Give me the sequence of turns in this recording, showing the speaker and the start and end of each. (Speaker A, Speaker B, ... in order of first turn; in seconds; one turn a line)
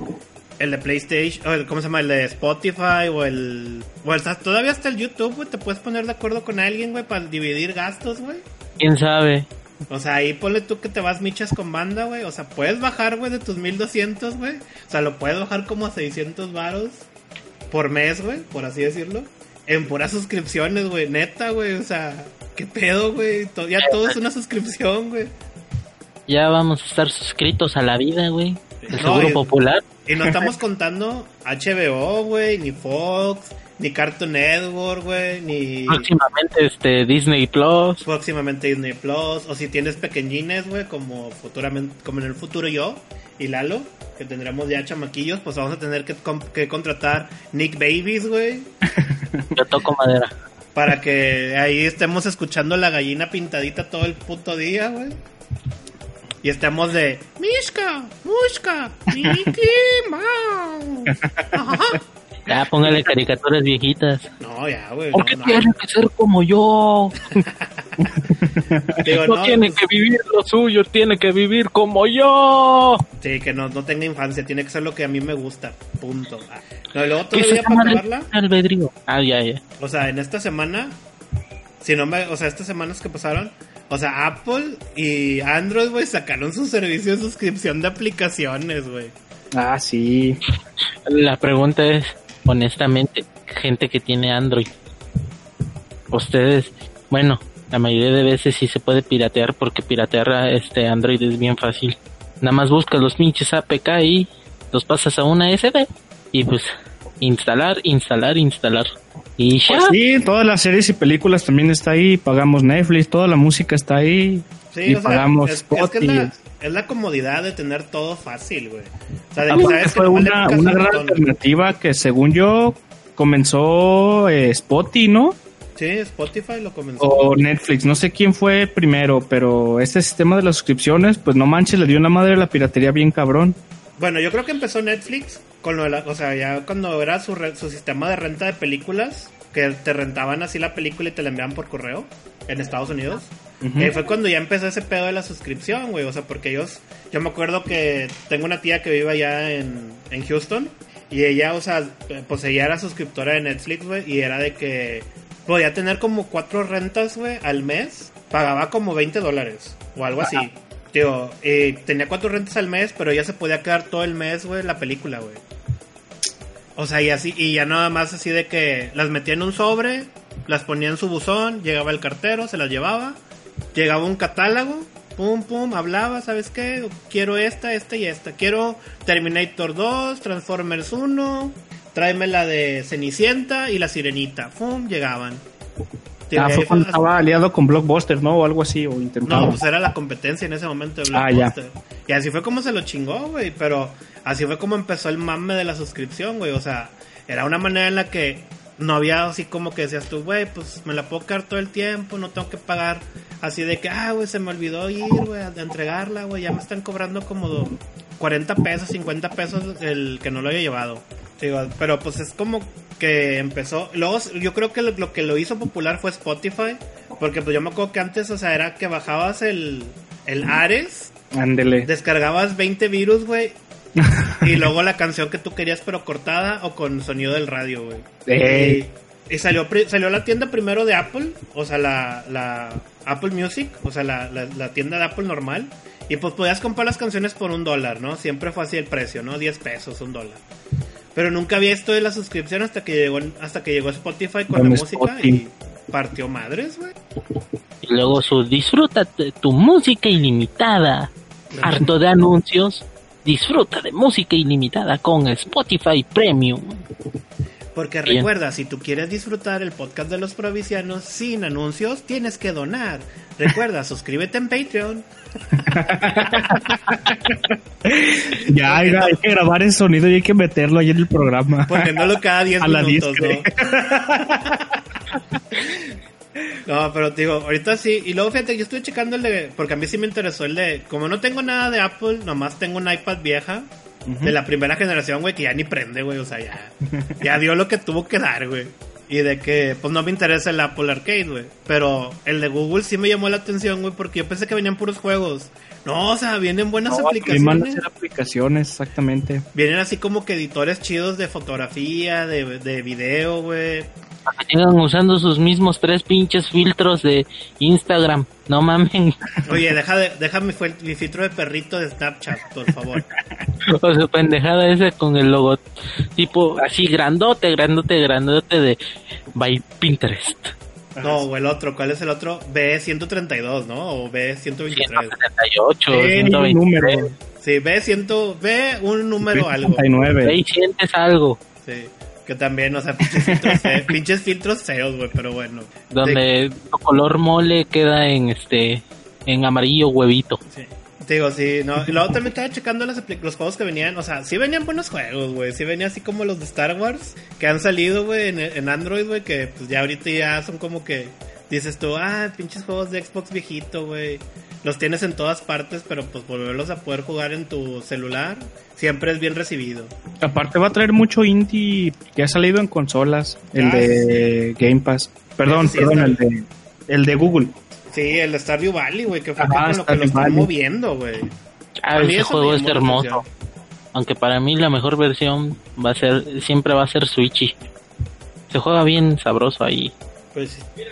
Speaker A: 0.6-8.4
Speaker B: 8.8-9.5
Speaker A: 9.9-17.1
Speaker A: 17.7-25.3
Speaker B: 23.8-24.2
Speaker B: 26.3-29.9
Speaker A: 28.8-29.4
Speaker A: 30.1-36.1
Speaker B: 35.9-38.0
Speaker A: 38.0-48.7
Speaker C: 49.0-49.5
Speaker B: 49.5-50.3
Speaker A: 50.7-55.2
Speaker A: 56.4-62.0
Speaker C: 61.1-61.5
Speaker B: 62.5-64.3
Speaker A: 64.4-65.7
Speaker B: 65.1-67.4
Speaker C: 68.3-69.0
Speaker A: 69.0-69.8
Speaker B: 69.1-73.0
Speaker A: 73.2-78.3
Speaker B: 77.3-79.6
Speaker A: 79.8-80.9
Speaker A: 81.8-89.1
Speaker C: 89.5-90.4
Speaker B: 91.0-94.7
Speaker B: 96.1-109.9
Speaker C: 109.7-116.3
Speaker A: 114.7-121.2
Speaker C: 119.5-125.4
Speaker A: 125.8-127.4
Speaker C: 127.0-133.6
Speaker A: 134.0-165.4
Speaker C: 143.6-143.9
Speaker A: 166.8-173.2
Speaker A: 173.7-185.4
Speaker A: 186.3-187.0
Speaker C: 186.3-189.6
Speaker A: 189.2-221.1
Speaker C: 191.1-191.5
Speaker C: 221.3-221.9
Speaker A: 221.8-223.6
Speaker C: 224.0-224.4
Speaker A: 224.4-240.4
Speaker C: 228.3-228.8
Speaker A: 241.2-246.9
Speaker C: 244.5-245.4
Speaker B: 247.8-251.1
Speaker A: 251.5-251.9
Speaker B: 251.6-256.8
Speaker A: 257.7-265.1
Speaker C: 265.6-272.1
Speaker A: 265.8-266.6
Speaker A: 268.3-269.2
Speaker A: 271.7-274.6
Speaker C: 272.6-274.7
Speaker A: 276.7-283.7
Speaker C: 284.1-284.3
Speaker A: 284.2-297.8
Speaker C: 286.9-287.2
Speaker C: 296.9-299.4
Speaker A: 299.5-303.9
Speaker B: 304.3-309.2
Speaker A: 309.4-313.1
Speaker B: 313.7-318.8
Speaker B: 319.3-320.6
Speaker C: 320.9-321.2
Speaker A: 321.0-325.1
Speaker B: 324.7-327.1
Speaker C: 325.9-327.1
Speaker A: 327.4-329.9
Speaker C: 329.3-330.4
Speaker B: 330.2-331.4
Speaker A: 331.6-336.2
Speaker C: 333.2-333.8
Speaker B: 335.9-340.4
Speaker A: 340.5-359.9
Speaker C: 360.2-367.6
Speaker A: 363.6-364.3
Speaker A: 365.4-366.2
Speaker A: 367.9-371.3
Speaker C: 369.4-370.5
Speaker B: 371.8-373.2
Speaker A: 371.9-373.3
Speaker B: 373.9-377.6
Speaker B: 378.5-379.9
Speaker A: 380.3-380.7